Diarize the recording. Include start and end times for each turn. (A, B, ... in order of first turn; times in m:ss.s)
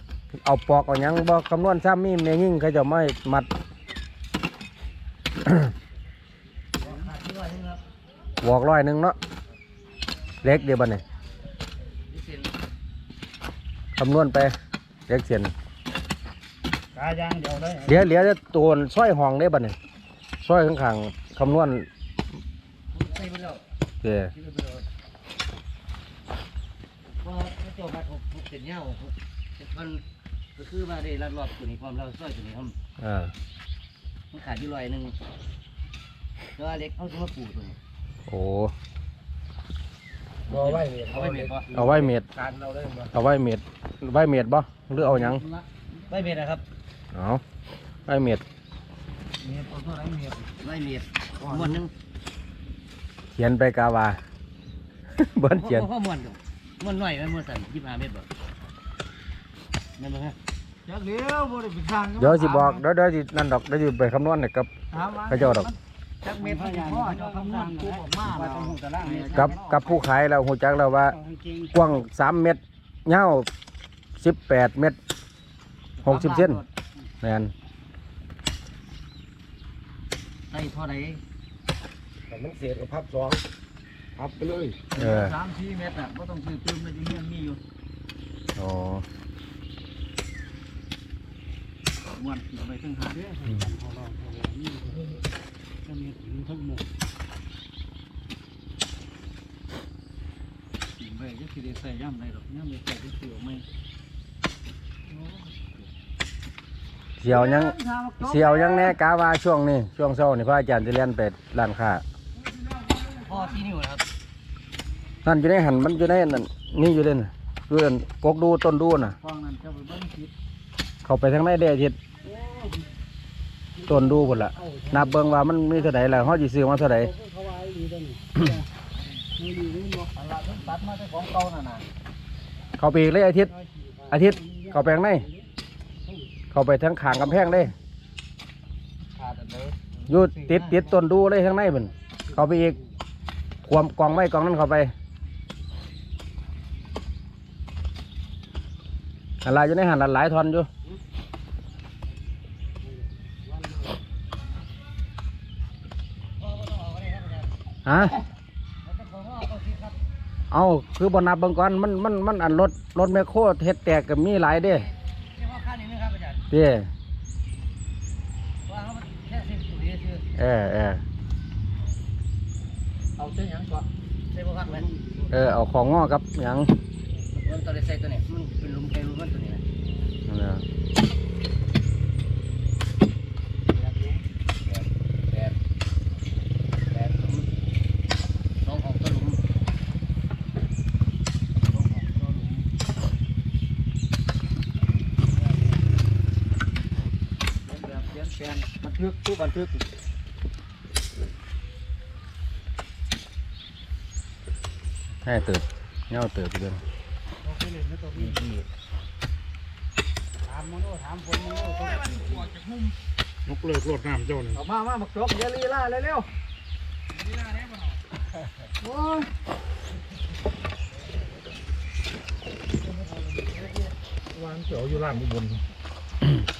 0:00.3-0:03.5 A
0:06.8-0:07.8 B
0:08.4-0:09.2 A
0:10.4-0:11.0 A
0:12.0-0:12.5 B
0:14.0-0:14.5 A
0:15.1-0:15.5 A
0:16.9-0:18.0 C
0:17.8-0:19.8 A
0:20.4-0:21.9 A
0:22.9-0:24.9 B
0:24.0-0:24.3 A
0:27.1-0:30.0 B
0:30.6-0:32.8 B
0:33.0-0:33.3 A
0:34.3-0:35.2 B
0:36.6-0:37.8 B
0:38.3-0:38.7 A
0:40.5-0:41.8 B
0:40.5-0:43.1 D
0:41.7-0:42.3 A
0:43.1-0:45.4 A
0:45.0-0:46.6 B
0:47.1-0:47.4 A
0:48.0-0:48.4 A
0:49.4-0:51.9 B
0:53.3-0:54.2 A
0:55.1-0:55.9 A
0:55.5-0:58.3 B
1:00.0-1:02.8 B
1:02.2-1:04.7 A
1:04.9-1:10.1 B
1:05.3-1:05.7 A
1:06.4-1:09.5 C
1:09.3-1:11.2 A
1:11.1-1:11.9 C
1:11.7-1:13.5 A
1:14.2-1:15.0 A
1:16.0-1:16.7 B
1:16.0-1:16.6 A
1:17.2-1:17.5 A
1:20.5-1:21.2 B
1:22.3-1:23.4 D
1:24.2-1:24.9 D
1:24.9-1:25.4 A
1:24.9-1:27.6 B
1:28.6-1:29.0 A
1:32.1-1:33.2 B
1:33.2-1:35.2 C
1:35.8-1:36.8 C
1:41.0-1:43.6 B
1:47.2-1:52.0 A
1:47.2-1:48.9 B
1:53.0-1:54.0 B
1:55.2-1:59.2 A
1:59.0-2:00.3 B
2:01.0-2:02.0 A
2:02.2-2:02.9 C
2:03.8-2:05.1 C
2:03.8-2:07.1 A
2:07.0-2:08.6 C
2:09.4-2:10.1 C
2:10.2-2:11.8 B
2:12.8-2:13.5 A
2:13.5-2:15.5 C
2:14.1-2:15.2 A
2:16.5-2:17.7 A
2:19.2-2:20.8 B
2:20.1-2:22.8 A
2:22.4-2:22.8 C
2:23.6-2:24.9 A
2:29.4-2:30.7 A
2:32.8-2:34.0 C
2:36.4-2:37.6 B
2:37.8-2:38.2 A
2:38.8-2:40.0 B
2:40.5-2:44.9 A
2:44.6-2:46.5 B
2:46.5-2:46.9 A
2:48.7-2:50.2 B
2:50.4-2:51.0 A
2:53.2-2:54.9 B
2:55.3-2:56.7 A
2:57.3-2:59.6 B
3:00.3-3:00.6 A
3:03.9-3:05.6 B
3:06.9-3:07.5 B
3:08.6-3:09.4 B
3:11.7-3:12.6 B
3:17.7-3:19.8 B
3:25.2-3:26.8 A
3:27.4-3:28.5 C
3:28.2-3:28.6 B
3:30.4-3:32.5 C
3:32.5-3:32.9 E
3:33.4-3:34.6 E
3:34.5-3:36.3 B
3:37.2-3:37.9 E
3:38.9-3:39.2 B
3:43.4-3:43.7 B
3:44.3-3:45.6 E